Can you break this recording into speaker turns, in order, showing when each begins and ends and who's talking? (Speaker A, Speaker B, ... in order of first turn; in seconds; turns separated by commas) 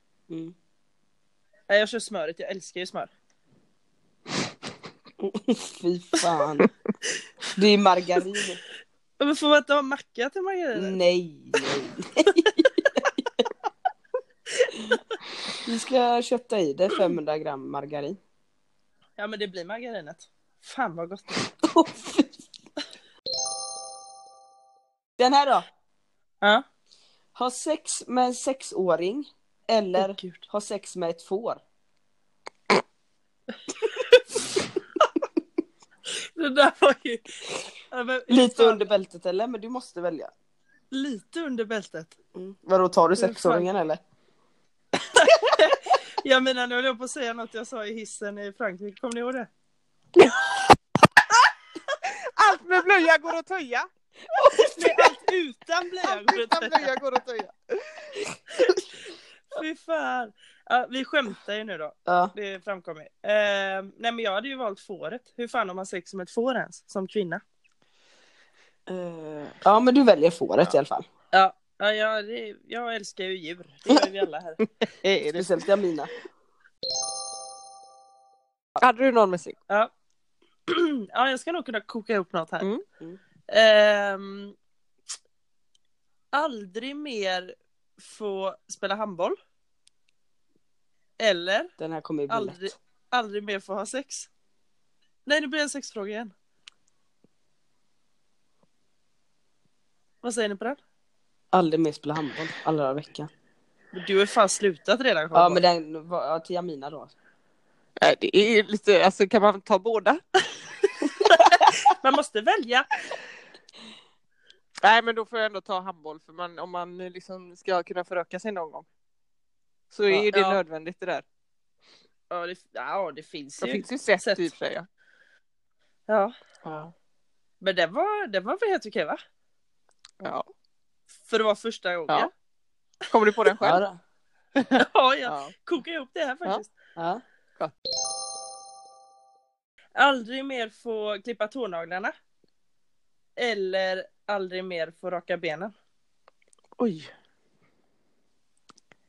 Speaker A: 0.3-0.5, Speaker B: 1.7-3.1, Speaker A: 5.2-6.7, Speaker A: 7.6-8.6, Speaker B: 9.2-11.0, Speaker A: 10.8-13.0, Speaker A: 15.7-18.2, Speaker B: 19.2-21.4, Speaker A: 21.6-22.4, Speaker A: 25.2-25.7, Speaker A: 27.4-31.6, Speaker B: 30.0-30.4, Speaker B: 33.9-34.2, Speaker B: 36.4-38.9, Speaker A: 38.3-40.3, Speaker B: 40.9-42.1, Speaker A: 42.4-44.0, Speaker B: 43.2-43.7, Speaker B: 45.1-49.5, Speaker C: 52.4-53.9, Speaker A: 54.3-55.0, Speaker B: 54.8-56.9, Speaker C: 56.0-58.2, Speaker B: 59.5-67.4, Speaker A: 62.1-62.3, Speaker A: 68.9-71.1, Speaker B: 71.3-74.7, Speaker C: 75.0-75.5, Speaker A: 75.3-76.1, Speaker C: 78.8-79.6, Speaker B: 80.7-82.7, Speaker B: 83.5-84.5, Speaker B: 86.3-89.4, Speaker B: 91.2-91.7, Speaker A: 91.8-92.7, Speaker B: 92.3-94.3, Speaker B: 95.3-96.3, Speaker B: 100.2-100.8, Speaker A: 101.5-103.3, Speaker B: 103.9-105.6, Speaker A: 105.3-107.1, Speaker C: 108.0-110.2, Speaker B: 111.2-112.9, Speaker C: 114.8-118.9, Speaker C: 119.9-121.2, Speaker B: 120.1-120.6, Speaker B: 122.3-124.5, Speaker C: 123.6-124.9, Speaker B: 126.1-126.3, Speaker C: 126.6-126.9, Speaker B: 127.6-129.2, Speaker C: 130.2-130.5, Speaker B: 131.3-132.3, Speaker C: 133.1-133.8, Speaker A: 133.6-134.0, Speaker C: 134.6-135.5, Speaker B: 134.8-136.7, Speaker A: 137.0-137.2, Speaker B: 140.0-142.1, Speaker B: 143.4-145.7, Speaker C: 146.8-147.1